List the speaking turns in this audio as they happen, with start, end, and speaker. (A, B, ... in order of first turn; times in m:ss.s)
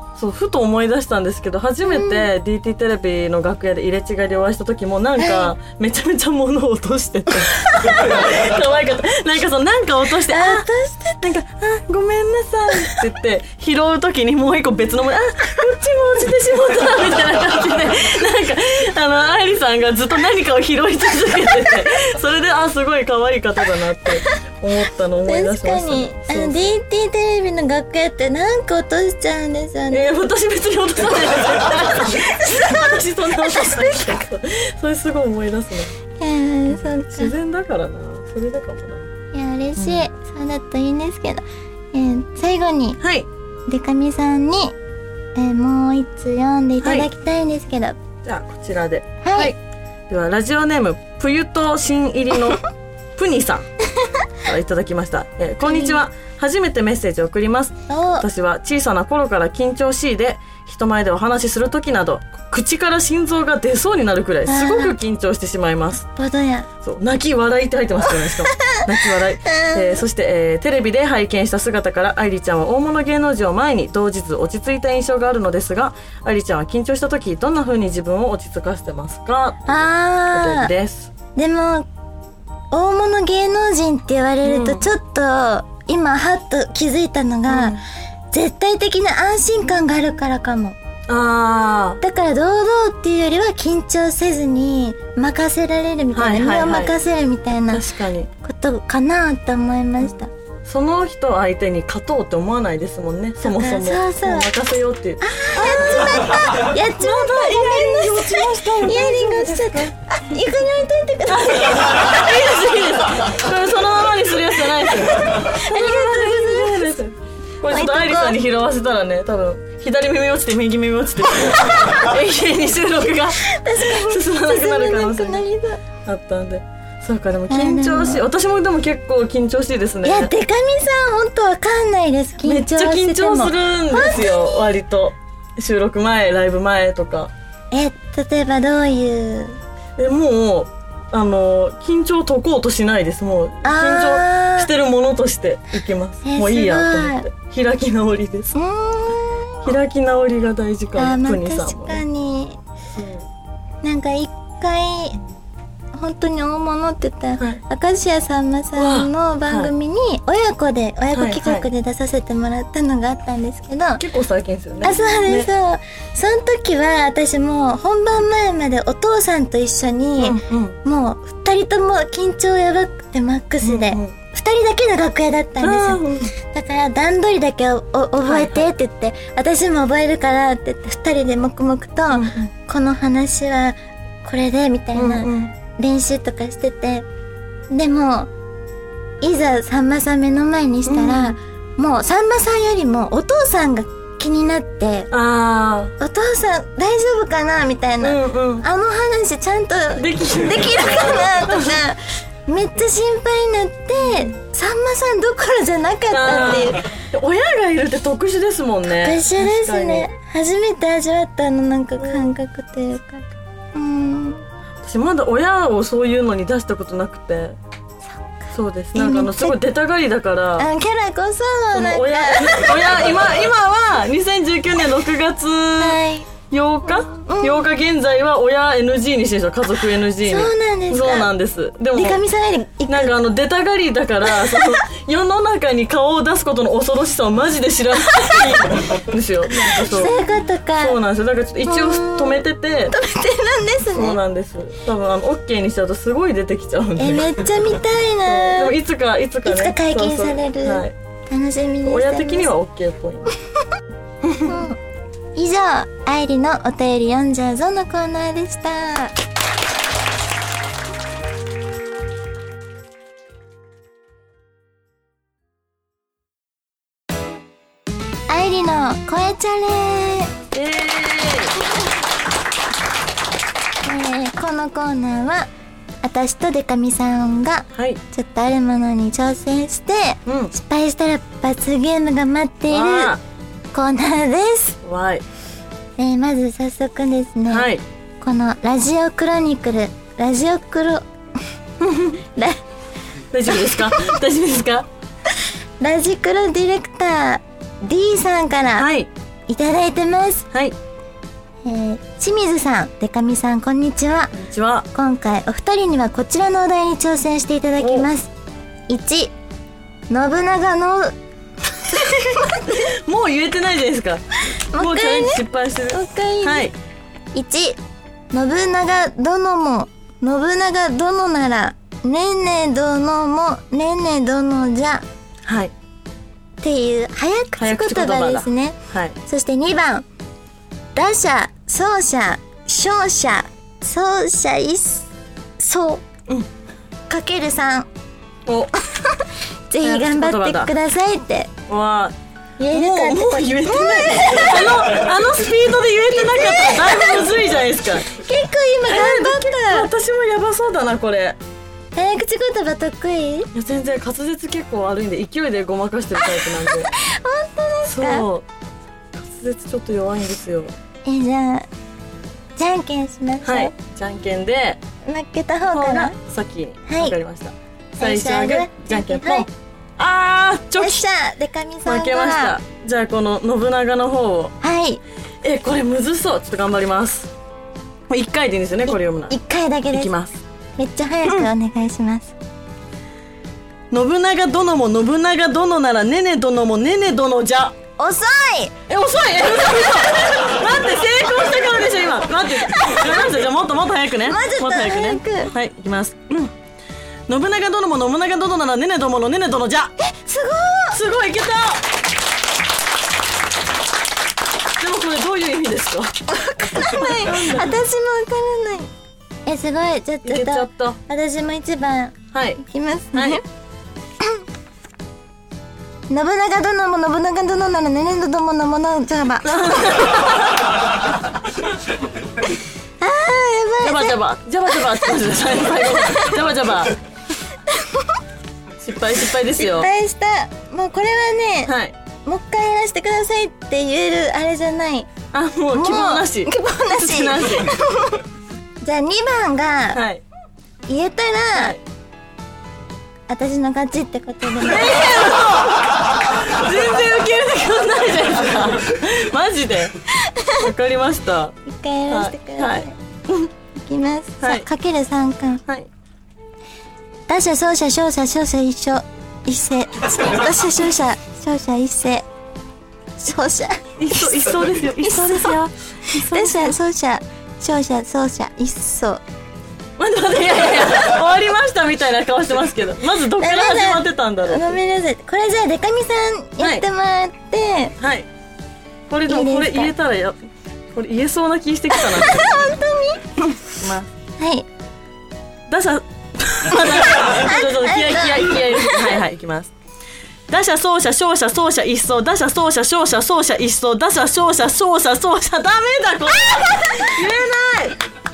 0:00.2-0:10.7 A
0:01.9-0:02.3 B
0:05.2-0:05.5 B
0:10.3-0:11.2 B
0:11.2-0:26.7 A
0:25.2-0:30.1 B
0:29.9-0:35.9 A
0:32.5-0:32.8 B
0:33.5-0:34.0 B
0:36.2-0:37.3 B
0:36.7-0:39.1 A
0:39.3-0:43.0 B
0:39.8-0:40.1 A
0:43.0-0:43.3 A
0:43.7-0:44.7 B
0:45.3-0:48.0 B
0:46.8-0:47.1 A
0:48.2-0:49.6 A
0:49.2-0:49.5 B
0:50.1-0:52.6 A
0:53.2-0:53.7 A
0:54.4-1:06.1 A
0:55.6-0:56.0 B
0:57.9-0:58.2 B
1:04.5-1:04.9 B
1:06.2-1:06.7 B
1:06.8-1:19.7 A
1:08.5-1:08.8 B
1:09.4-1:10.0 B
1:19.6-1:20.7 B
1:20.3-1:21.1 A
1:21.3-1:21.9 B
1:22.7-1:27.8 B
1:24.4-1:24.9 A
1:27.5-1:27.8 A
1:28.3-1:30.8 B
1:31.1-1:32.0 A
1:32.0-1:37.8 B
1:36.1-1:36.9 A
1:37.7-1:38.3 A
1:38.4-1:40.3 B
1:40.0-1:49.9 A
1:43.4-1:44.5 B
1:45.2-1:52.1 B
1:51.3-2:05.4 A
1:55.4-1:57.0 B
1:57.7-1:58.4 B
2:01.6-2:02.0 B
2:03.4-2:05.8 B
2:06.0-2:10.3 A
2:07.5-2:08.2 B
2:10.0-2:14.6 B
2:12.4-2:17.3 A
2:17.7-2:19.6 B
2:20.0-2:28.5 A
2:23.6-2:24.7 B
2:26.2-2:27.2 B
2:28.5-2:29.7 B
2:29.6-2:32.0 A
2:31.0-2:32.6 B
2:32.9-2:33.2 A
2:33.8-2:35.2 B
2:35.9-2:44.0 B
2:38.8-2:39.7 A
2:41.1-2:41.7 A
2:44.0-2:45.5 A
2:44.8-3:07.0 B
2:50.2-2:50.8 A
2:53.6-2:54.1 A
2:55.6-2:56.3 A
2:58.2-2:58.7 A
3:02.1-3:02.5 A
3:04.9-3:05.5 A
3:07.7-3:08.3 B
3:09.2-3:15.1 B
3:10.9-3:11.4 A
3:15.1-3:15.9 A
3:16.0-3:26.9 B
3:18.0-3:18.6 A
3:20.0-3:21.8 A
3:24.0-3:24.3 A
3:26.1-3:30.1 A
3:28.9-3:34.4 B
3:32.0-3:32.2 A
3:34.8-3:37.6 A
3:38.5-3:40.7 A
3:38.9-3:39.6 B
3:40.6-3:42.9 B
3:41.7-3:52.2 A
3:45.8-3:46.3 B
3:46.9-3:47.6 B
3:50.2-3:51.3 B
3:51.9-3:53.1 B
3:52.9-4:00.1 A
3:54.4-3:54.8 B
3:59.7-4:01.0 B
4:00.8-4:02.9 A
4:01.6-4:04.2 B
4:03.9-4:07.4 A
4:07.0-4:08.8 B
4:08.2-4:10.9 A
4:09.4-4:12.5 B
4:11.8-4:13.3 A
4:14.2-4:14.6 A
4:14.4-4:14.8 B
4:15.4-4:19.1 B
4:28.3-4:30.3 B
4:30.5-4:31.6 A
4:33.8-4:35.5 B
4:36.0-4:43.1 B
4:37.7-4:38.0 A
4:40.2-4:40.5 A
4:42.7-4:43.2 A
4:43.7-4:44.8 B
4:44.8-4:45.2 A
4:46.0-4:47.7 B
4:47.5-4:47.8 A
4:48.2-4:51.0 B
4:51.8-4:52.1 A
4:52.1-4:52.6 B
4:53.3-4:54.9 A
4:55.8-4:58.9 B
4:58.8-4:59.1 A
4:59.5-5:00.5 B
5:01.6-5:04.3 B
5:04.3-5:04.9 A
5:04.9-5:08.3 B
5:07.8-5:08.1 A
5:08.9-5:09.3 B
5:10.1-5:11.1 B
5:11.8-5:12.7 B
5:11.9-5:14.2 A
5:14.6-5:16.7 B
5:14.7-5:16.7 A
5:17.3-5:17.8 B
5:18.3-5:25.0 B
5:25.4-5:25.7 A
5:26.6-5:30.0 B
5:27.6-5:29.2 A
5:30.9-5:36.0 B
5:37.1-5:37.9 B
5:38.4-5:38.7 A
5:39.0-5:41.5 B
5:39.8-5:40.7 A
5:41.7-5:42.1 A
5:42.6-5:44.8 B
5:42.7-5:48.1 A
5:46.3-5:47.2 B
5:48.1-5:49.9 B
5:48.8-5:51.4 A
5:51.9-5:53.5 B
5:53.5-5:56.9 A
5:56.6-5:58.3 B
5:57.8-5:58.5 A
5:59.1-6:00.7 A
6:01.0-6:01.7 B
6:02.6-6:03.7 B
6:03.4-6:04.8 A
6:05.0-6:06.1 B
6:05.6-6:11.0 A
6:06.9-6:07.2 B
6:08.0-6:09.5 B
6:10.8-6:12.5 B
6:11.8-6:14.5 A
6:14.6-6:15.0 B
6:15.4-6:17.3 A
6:18.1-6:19.3 A
6:18.9-6:20.1 B
6:19.9-6:20.4 A
6:20.8-6:22.4 B
6:23.9-6:27.8 A
6:28.0-6:28.7 B
6:28.9-6:36.5 A
6:32.7-6:33.0 B
6:34.2-6:35.5 B
6:37.3-6:39.9 A
6:40.0-6:41.0 B
6:40.9-6:41.8 A
6:44.8-6:46.2 A
6:46.3-6:48.9 B
6:46.7-6:47.8 A
6:49.4-6:53.4 B
6:50.2-6:51.0 A
6:52.3-6:52.6 A
6:53.1-6:53.4 A
6:56.1-6:59.8 B
6:59.4-7:00.7 A
7:03.0-7:04.2 B
7:03.8-7:07.0 A
7:06.1-7:06.4 B
7:07.7-7:08.2 B
7:08.8-7:09.9 A
7:09.5-7:11.7 B
7:11.6-7:11.9 A
7:12.2-7:15.1 B
7:15.3-7:17.7 A
7:15.7-7:18.2 B
7:18.8-7:20.0 B
7:19.9-7:20.2 A
7:20.9-7:21.8 B
7:21.5-7:21.8 A
7:23.3-7:25.2 B
7:24.6-7:29.9 A
7:30.2-7:30.6 B
7:30.5-7:31.6 A
7:31.6-7:32.9 B
7:32.1-7:33.5 A
7:33.8-7:35.6 B
7:34.4-7:34.7 A
7:37.3-7:42.2 B
7:43.2-7:44.4 B
7:44.0-7:46.8 A
7:45.0-7:45.6 B
7:46.1-7:49.2 B
7:50.0-7:54.8 A
7:53.4-7:58.0 B
7:56.6-7:56.8 A
7:58.0-7:58.3 A
7:59.1-8:00.4 A
7:59.3-7:59.9 B
8:00.9-8:02.7 A
8:01.9-8:03.5 B
8:03.7-8:04.1 A
8:04.4-8:04.6 B
8:05.7-8:09.7 A
8:06.7-8:09.1 B
8:10.5-8:18.0 A
8:16.4-8:17.2 B